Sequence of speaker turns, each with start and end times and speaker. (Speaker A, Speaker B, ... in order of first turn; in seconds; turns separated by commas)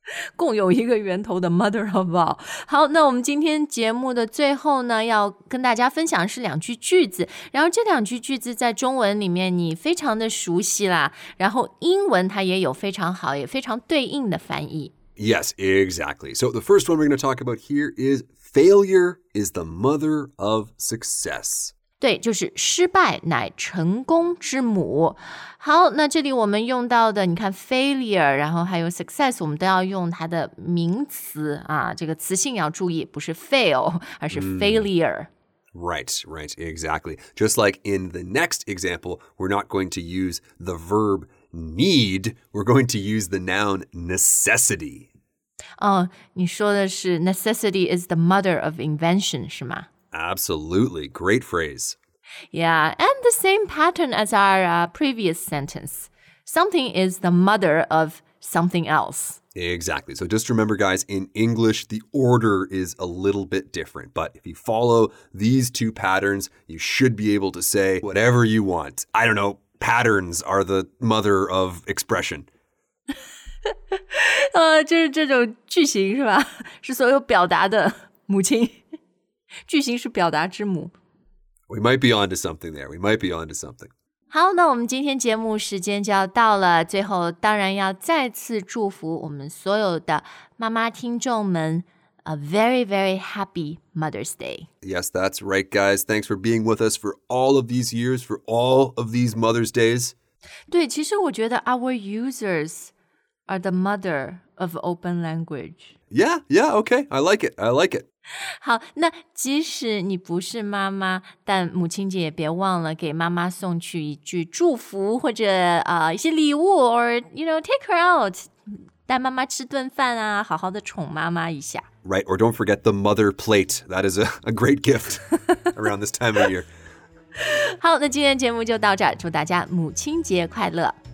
Speaker A: 0.3-14.9, Speaker B: 15.2-21.7, Speaker A: 22.0-35.3, Speaker B: 34.3-34.9, Speaker B: 35.7-45.1, Speaker A: 45.8-49.9, Speaker B: 50.1-52.0, Speaker A: 52.5-59.4, Speaker B: 59.5-72.5, Speaker A: 73.7-78.8, Speaker A: 79.7-80.9, Speaker B: 81.7-83.9, Speaker A: 84.3-94.7, Speaker B: 94.8-100.1, Speaker A: 100.7-102.9, Speaker A: 103.5-105.9, Speaker B: 106.1-108.0, Speaker A: 108.6-118.5, Speaker A: 119.0-121.8, Speaker B: 122.0-126.7, Speaker A: 127.4-130.9